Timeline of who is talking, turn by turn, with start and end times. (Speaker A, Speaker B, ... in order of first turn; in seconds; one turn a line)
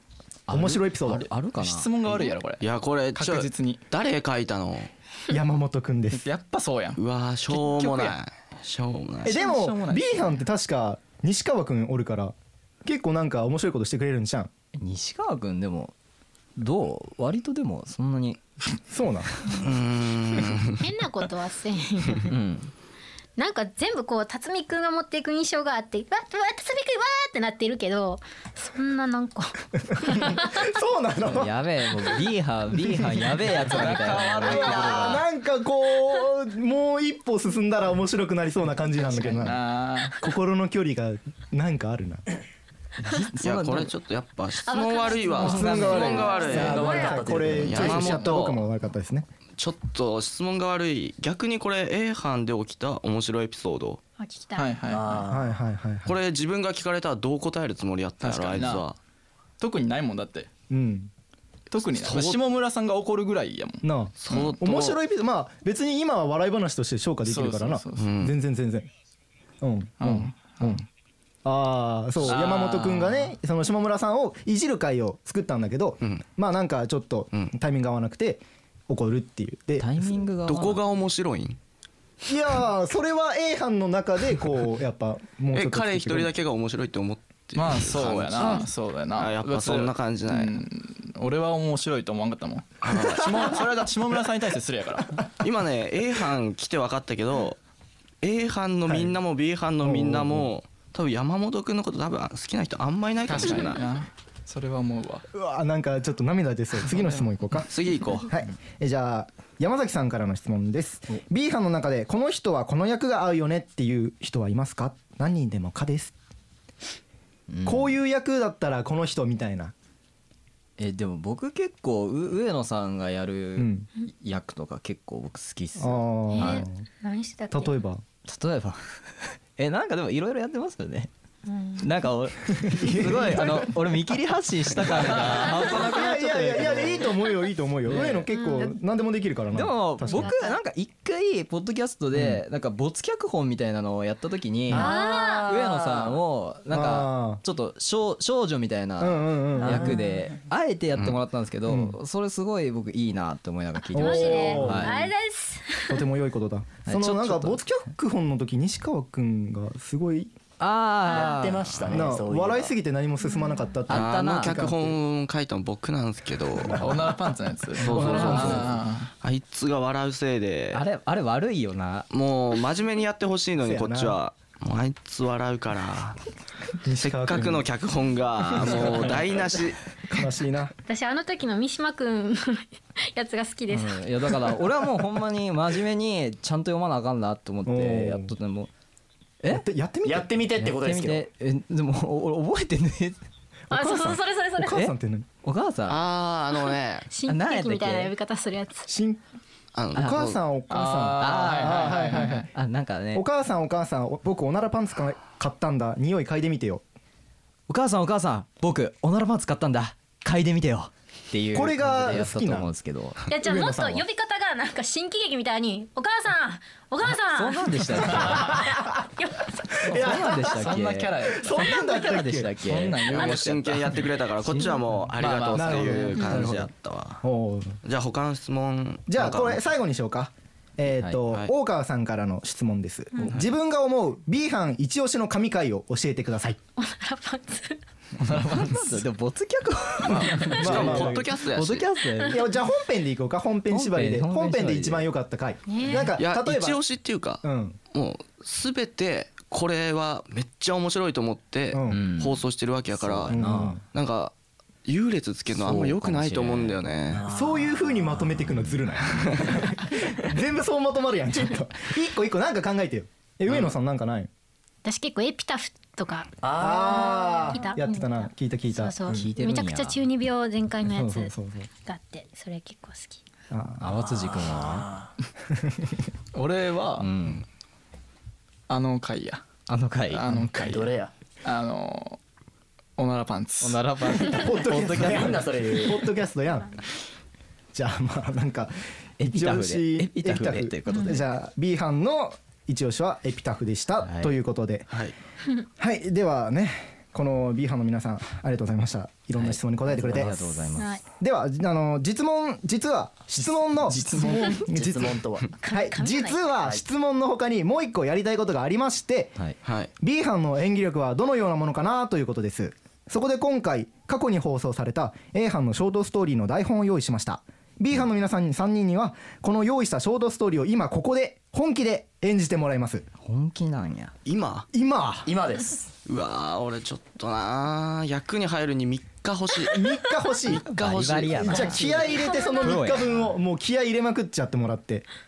Speaker A: 0.5-2.1
Speaker B: 0.5-1.3
Speaker C: 1.5-3.8
Speaker D: 2.6-4.9
Speaker B: 5.3-6.3
Speaker C: 6.1-8.2
Speaker D: 7.0-9.5
Speaker C: 9.2-10.2
Speaker B: 9.2-12.3
Speaker B: 12.8-14.5
Speaker A: 14.8-15.9
Speaker A: 16.6-18.4
Speaker B: 18.9-19.6
Speaker D: 19.6-20.8
Speaker E: 20.8-22.3
Speaker A: 22.2-22.7
Speaker E: 23.4-30.6
Speaker B: 30.0-31.5
Speaker A: 31.2-35.2
Speaker B: 32.9-33.7
Speaker C: 33.6-35.2
Speaker B: 34.4-39.6
Speaker C: 39.1-40.2
Speaker B: 40.2-42.2
Speaker A: 43.0-43.9
Speaker D: 43.4-48.6
Speaker E: 44.6-47.2
Speaker A: 45.4-46.8
Speaker B: 45.4-49.3
Speaker F: 46.5-48.3
Speaker D: 49.6-54.0
Speaker E: 54.2-54.7
Speaker C: 54.6-55.2
Speaker F: 54.9-55.5
Speaker B: 55.3-56.2
Speaker D: 56.1-59.0
Speaker C: 58.2-58.9
Speaker C: 59.6-60.5
Speaker B: 60.7-61.1
Speaker C: 61.7-63.8
Speaker D: 61.8-62.4
Speaker B: 63.8-68.9
Speaker D: 64.2-65.0
Speaker C: 67.3-68.2
Speaker D: 68.0-68.3
Speaker B: 69.6-70.8
Speaker C: 70.0-70.8
Speaker B: 71.5-80.0
Speaker C: 72.2-73.3
Speaker A: 79.8-80.8
Speaker D: 80.5-81.6
Speaker B: 82.3-86.3
Speaker D: 85.5-90.6
Speaker C: 87.6-95.2
Speaker D: 92.8-93.6
Speaker D: 95.4-97.6
Speaker D: 98.2-103.8
Speaker B: 98.9-99.2
Speaker B: 99.8-100.5
Speaker C: 103.3-105.2
Speaker B: 105.3-107.7
Speaker D: 107.6-108.3
Speaker B: 108.3-116.2
Speaker A: 117.5-118.0
Speaker B: 117.7-119.7
Speaker A: 120.8-126.5
Speaker B: 123.6-123.9
Speaker B: 125.8-126.7
Speaker E: 126.3-127.7
Speaker B: 127.5-128.0
Speaker A: 128.3-131.1
Speaker E: 131.5-131.8
Speaker A: 131.8-137.1
Speaker B: 132.6-133.8
Speaker B: 135.2-140.3
Speaker A: 137.9-138.3
Speaker E: 138.3-138.7
Speaker A: 139.5-155.1
Speaker E: 140.1-140.6
Speaker B: 142.1-142.4
Speaker B: 144.7-145.1
Speaker E: 144.7-145.8
Speaker B: 146.7-147.4
Speaker B: 149.0-150.0
Speaker E: 149.6-150.2
Speaker B: 151.7-152.0
Speaker E: 153.9-156.0
Speaker B: 153.9-155.1
Speaker B: 155.9-160.3
Speaker A: 156.8-157.6
Speaker A: 160.6-162.1
Speaker F: 161.1-162.7
Speaker B: 161.9-165.0
Speaker A: 163.9-164.7
Speaker D: 163.9-167.1
Speaker C: 166.8-169.1
Speaker D: 167.8-170.8
Speaker B: 167.8-168.8
Speaker A: 170.7-172.1
Speaker D: 172.1-176.2
Speaker B: 173.6-174.2
Speaker B: 176.8-177.7
Speaker D: 177.0-179.8
Speaker B: 178.6-179.2
Speaker B: 180.1-180.7
Speaker E: 180.9-184.6
Speaker A: 183.7-188.7
Speaker B: 187.7-188.3
Speaker B: 189.5-190.4
Speaker F: 190.1-191.2
Speaker A: 190.6-193.2
Speaker B: 193.7-195.3
Speaker E: 193.7-194.8
Speaker A: 195.4-196.0
Speaker D: 195.9-197.1
Speaker E: 197.1-198.9
Speaker A: 197.3-198.1
Speaker B: 198.9-199.2
Speaker D: 199.7-200.4
Speaker B: 199.9-202.5
Speaker C: 200.7-202.5
Speaker A: 201.2-203.2
Speaker B: 203.1-206.8
Speaker A: 207.7-213.2
Speaker B: 211.5-212.7
Speaker E: 213.3-219.8
Speaker B: 213.4-214.0
Speaker A: 217.3-218.6
Speaker B: 218.2-218.6
Speaker B: 219.8-220.8
Speaker A: 219.9-223.1
Speaker C: 220.0-224.1
Speaker B: 221.3-222.8
Speaker D: 223.1-227.2
Speaker A: 224.4-226.7
Speaker C: 225.2-226.1
Speaker B: 225.6-226.7
Speaker B: 227.2-227.8
Speaker D: 227.8-229.6
Speaker B: 229.1-236.6
Speaker E: 236.8-237.8
Speaker C: 238.2-239.0
Speaker A: 238.2-242.4
Speaker D: 240.0-241.9
Speaker B: 240.6-241.3
Speaker B: 242.3-246.8
Speaker A: 243.7-245.1
Speaker E: 245.7-246.2
Speaker D: 246.2-253.3
Speaker B: 247.4-247.8
Speaker B: 251.7-252.0
Speaker A: 251.9-252.3
Speaker A: 253.0-253.8
Speaker B: 253.3-253.8
Speaker D: 253.9-254.3
Speaker D: 254.9-257.2
Speaker A: 255.5-256.8
Speaker F: 257.1-258.0
Speaker B: 257.3-264.3
Speaker E: 264.8-273.2
Speaker F: 266.4-267.4
Speaker B: 266.6-269.2
Speaker A: 269.1-270.1
Speaker B: 270.9-271.7
Speaker B: 273.5-274.0
Speaker A: 273.8-274.9
Speaker F: 274.1-275.1
Speaker B: 275.5-275.9
Speaker C: 276.3-277.1
Speaker A: 277.0-277.4
Speaker C: 278.7-279.4
Speaker A: 279.7-280.8
Speaker C: 280.1-280.9
Speaker F: 280.6-281.1
Speaker C: 281.4-282.2
Speaker C: 283.0-283.9
Speaker A: 283.6-285.4
Speaker B: 284.3-286.8
Speaker F: 284.6-286.0
Speaker B: 287.7-288.8
Speaker A: 289.2-291.2
Speaker B: 289.3-294.9
Speaker A: 294.0-294.4
Speaker B: 295.8-300.4
Speaker A: 299.4-300.9
Speaker B: 301.2-309.4
Speaker F: 304.2-305.5
Speaker E: 305.6-306.4
Speaker D: 309.6-309.9
Speaker B: 310.0-323.1
Speaker A: 323.2-324.1
Speaker D: 324.2-324.7
Speaker B: 324.7-325.3
Speaker F: 325.3-325.9
Speaker D: 326.1-329.8
Speaker B: 329.7-330.6
Speaker D: 330.5-331.8
Speaker A: 330.7-333.3
Speaker B: 331.4-335.1
Speaker F: 331.6-332.3